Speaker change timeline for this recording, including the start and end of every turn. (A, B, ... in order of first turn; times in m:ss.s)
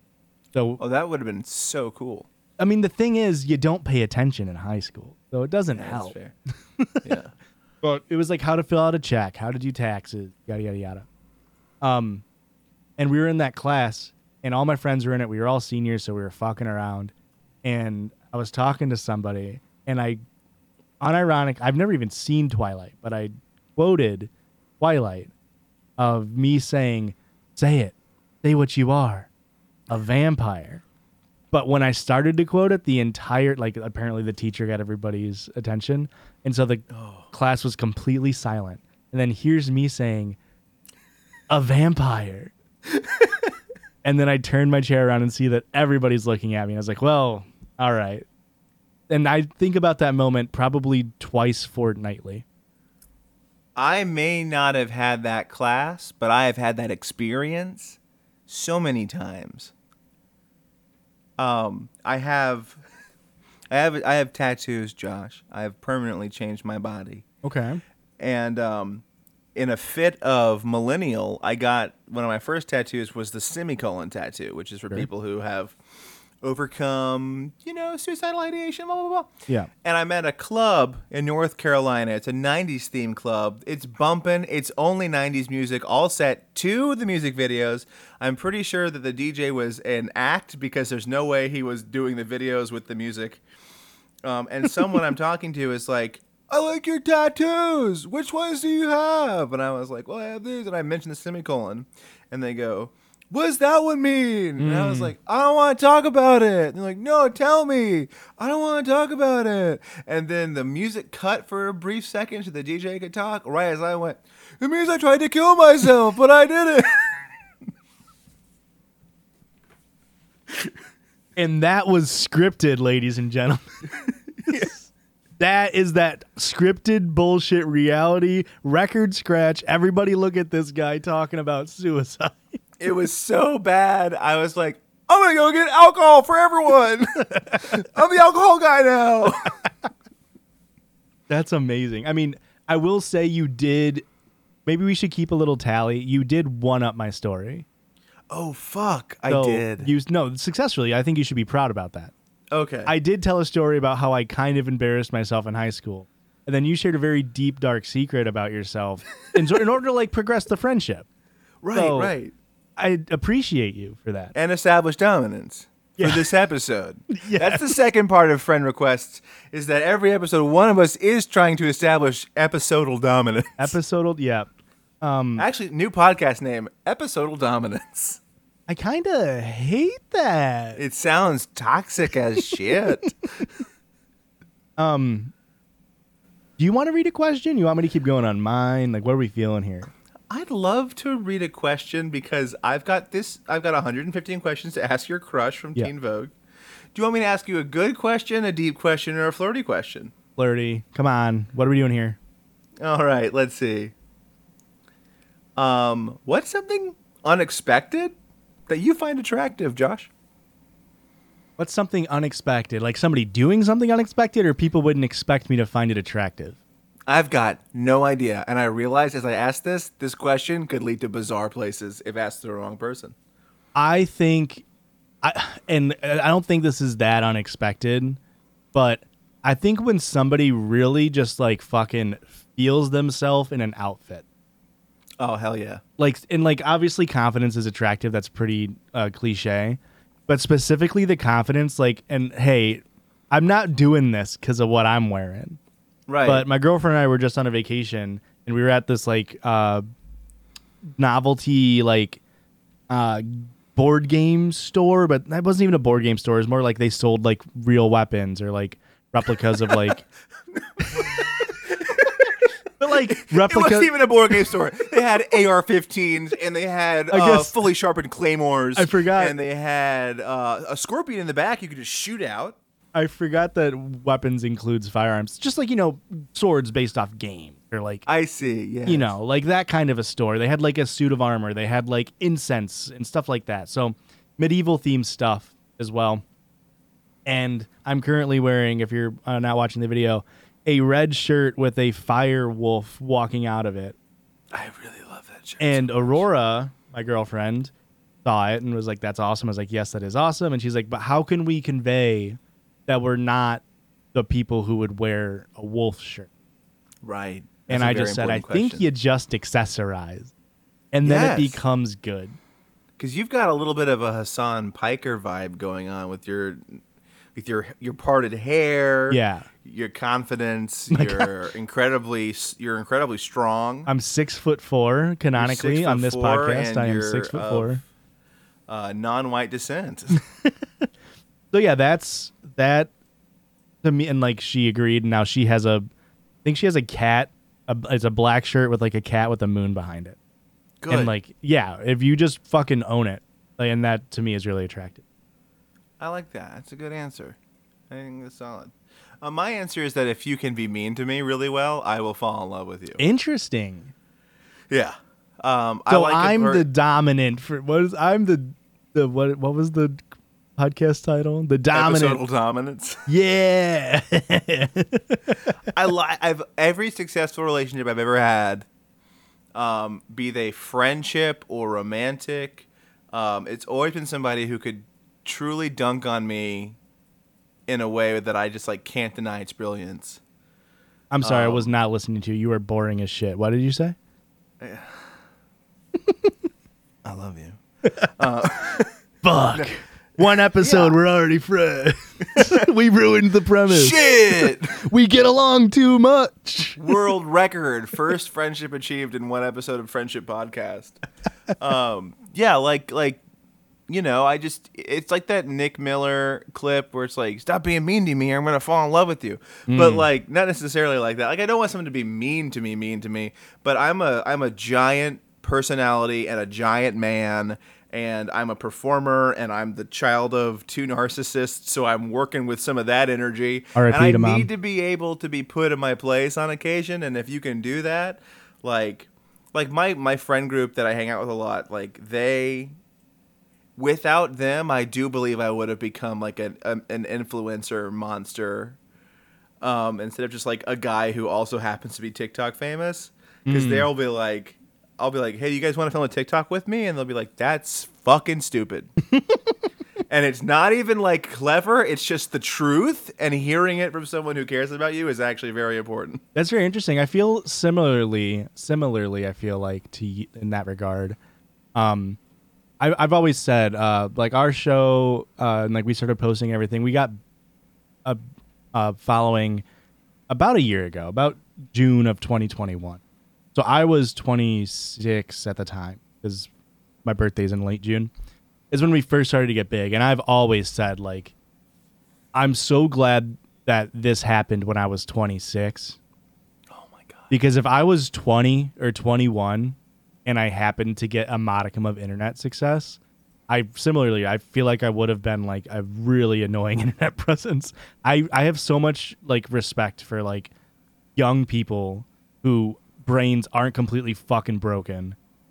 0:00.5-0:00.8 A
0:00.8-0:02.3 B
0:02.6-0:06.2 A
0:05.7-0:06.3 B
0:06.8-0:07.1 A
0:07.0-0:07.3 B
0:07.8-0:11.0 A
0:11.8-0:12.2 A
0:13.0-0:17.1 A
0:17.6-0:20.2 A
0:21.0-0:25.3 A
0:26.0-0:29.3 A
0:29.9-0:30.8 A
0:31.5-0:40.4 A
0:36.9-0:37.3 B
0:41.5-0:42.5 A
0:44.0-0:48.3 A
0:49.1-0:52.4 A
0:53.8-0:59.7 B
1:01.4-1:02.8 B
1:03.7-1:07.2 B
1:07.4-1:07.8 A
1:08.2-1:09.0 B
1:09.6-1:15.8 B
1:16.4-1:19.3 B
1:19.8-1:33.4 B
1:34.2-1:57.1 B
1:44.6-1:45.1 A
2:01.4-2:03.8 A
2:04.5-2:12.5 A
2:12.8-2:19.5 B
2:21.3-2:24.0 A
2:24.6-2:27.6 A
2:28.3-2:29.9 B
2:29.3-2:32.1 A
2:32.5-2:32.9 B
2:32.9-2:41.0 A
2:41.6-2:42.3 B
2:41.7-2:42.1 A
2:42.8-2:44.3 A
2:44.3-2:53.8 B
2:46.0-2:46.3 A
2:47.1-2:47.7 A
2:53.6-2:54.5 A
2:55.0-2:55.4 A
2:55.4-2:58.2 B
2:58.7-3:00.8 A
3:00.8-3:03.4 B
3:04.8-3:05.3 A
3:06.6-3:09.9 A
3:10.3-3:16.3 B
3:16.9-3:20.1 B
3:20.4-3:22.2 A
3:22.8-3:23.9 B
3:25.6-3:28.1 B
3:28.7-3:30.1 B
3:31.6-3:36.6 A
3:37.1-3:43.1 B
3:43.8-3:44.6 A
3:45.2-3:48.2 A
3:48.7-3:54.2 A
3:55.2-3:55.8 B
3:56.0-4:05.6 A
4:06.1-4:06.4 B
4:06.2-4:09.8 A
4:11.0-4:12.2 A
4:12.9-4:20.0 A
4:20.5-4:22.3 B
4:22.8-4:23.9 A
4:22.9-4:32.6 B
4:27.1-4:27.6 A
4:28.8-4:29.4 A
4:33.0-4:38.0 A
4:38.0-4:39.2 B
4:38.9-4:46.2 A
4:47.3-4:54.0 A
4:54.5-4:56.3 B
4:55.6-4:57.7 A
4:58.2-5:03.6 A
5:04.1-5:06.3 A
5:07.0-5:08.9 B
5:07.7-5:10.3 A
5:10.9-5:12.4 A
5:11.0-5:11.6 B
5:13.0-5:16.8 B
5:17.3-5:23.9 B
5:19.1-5:19.5 A
5:20.9-5:21.3 A
5:23.9-5:27.8 A
5:25.4-5:27.8 B
5:28.7-5:30.2 B
5:31.5-5:32.9 A
5:33.8-5:35.9 A
5:36.4-5:40.2 A
5:40.8-5:41.1 B
5:40.9-5:45.0 A
5:46.0-5:47.4 B
5:47.9-5:53.0 B
5:53.0-5:53.9 A
5:54.7-5:56.6 B
5:55.9-6:00.0 A
6:00.6-6:02.2 A
6:01.7-6:03.0 B
6:03.1-6:05.6 A
6:05.7-6:08.7 B
6:09.6-6:16.8 B
6:17.7-6:20.2 B
6:21.1-6:24.0 A
6:21.2-6:21.7 B
6:24.6-6:25.0 B
6:27.0-6:27.6 B
6:28.2-6:28.9 B
6:29.2-6:37.0 A
6:30.2-6:31.0 B
6:32.4-6:32.6 B
6:33.7-6:34.8 B
6:36.8-6:41.0 B
6:41.6-6:43.2 B
6:43.9-7:12.7 B
6:49.7-6:50.1 A
7:03.7-7:04.5 A
7:13.8-7:18.8 B
7:19.6-7:28.9 B
7:23.4-7:23.9 A
7:29.1-7:29.4 A
7:30.1-7:36.2 B
7:36.3-7:41.2 A
7:41.8-7:42.2 A
7:42.8-7:47.2 A
7:48.7-7:49.6 A
7:50.3-7:53.0 A
7:53.6-7:56.5 A
7:57.0-7:58.1 A
7:58.7-8:01.3 A
8:02.3-8:06.0 A
8:06.7-8:07.3 B
8:07.3-8:20.5 A
8:21.2-8:25.2 A